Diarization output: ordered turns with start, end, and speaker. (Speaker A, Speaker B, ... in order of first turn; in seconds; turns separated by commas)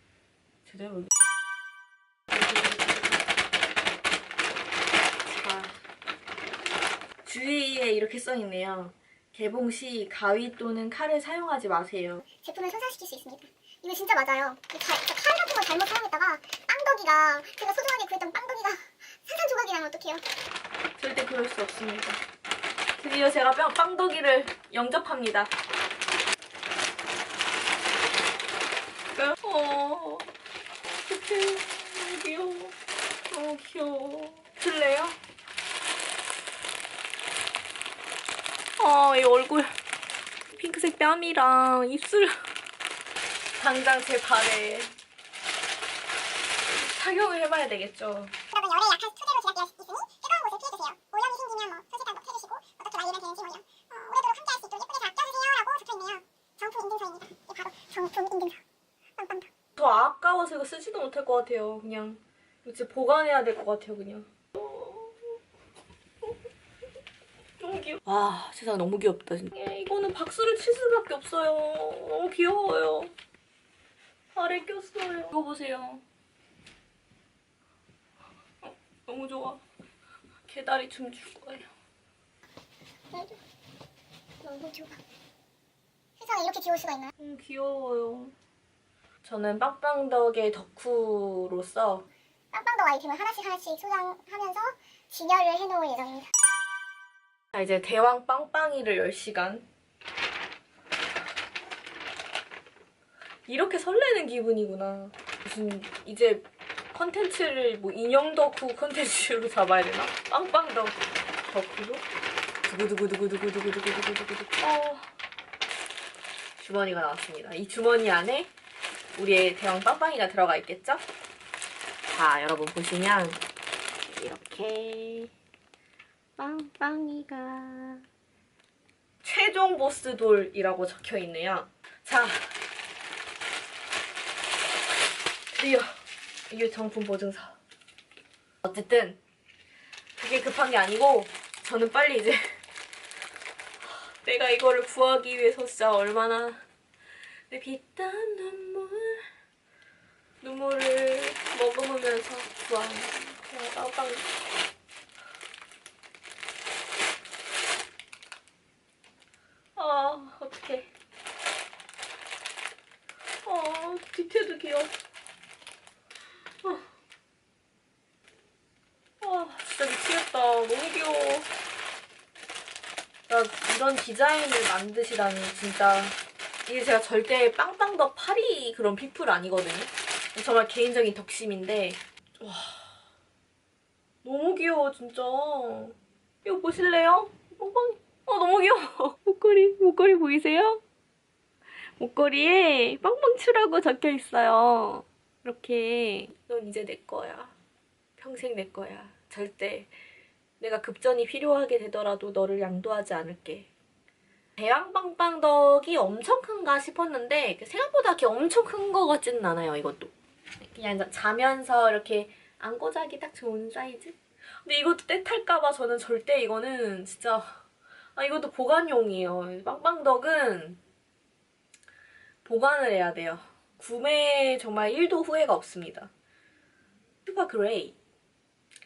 Speaker A: 0.7-1.1, Speaker A: 2.3-3.2, Speaker A: 5.2-5.8, Speaker A: 7.2-12.2, Speaker B: 12.3-20.2, Speaker A: 21.0-22.2, Speaker A: 22.9-25.5, Speaker A: 29.1-30.3, Speaker A: 30.9-32.8, Speaker A: 33.3-35.2, Speaker A: 38.8-39.8, Speaker A: 40.5-42.5, Speaker A: 43.6-44.9, Speaker A: 46.7-48.4, Speaker B: 48.5-58.6, Speaker B: 59.2-59.5, Speaker A: 59.8-65.3, Speaker A: 67.6-73.1, Speaker A: 74.3-76.0, Speaker A: 78.6-79.6, Speaker A: 80.5-81.7, Speaker B: 83.1-83.4, Speaker B: 84.4-85.0, Speaker B: 86.2-87.1, Speaker A: 87.2-88.3, Speaker A: 89.2-92.1, Speaker B: 92.5-96.3, Speaker A: 97.5-99.7, Speaker A: 103.5-112.0, Speaker A: 112.6-115.1, Speaker A: 116.6-118.5, Speaker A: 119.1-121.0, Speaker A: 122.1-123.4, Speaker A: 124.0-125.3, Speaker A: 126.4-128.0, Speaker A: 129.2-132.5, Speaker A: 135.5-136.0, Speaker A: 136.5-137.6, Speaker A: 138.6-139.2, Speaker A: 140.2-142.6, Speaker A: 144.2-146.6, Speaker A: 147.5-149.2, Speaker A: 150.4-154.3, Speaker A: 159.8-160.9, Speaker A: 163.4-164.9, Speaker A: 169.2-171.5, Speaker A: 173.3-182.9, Speaker A: 184.2-190.8, Speaker A: 192.0-197.5, Speaker A: 198.2-199.9, Speaker A: 200.6-203.7, Speaker A: 204.6-210.1, Speaker A: 210.6-217.6, Speaker A: 218.2-220.8, Speaker A: 222.4-226.1, Speaker A: 227.2-228.0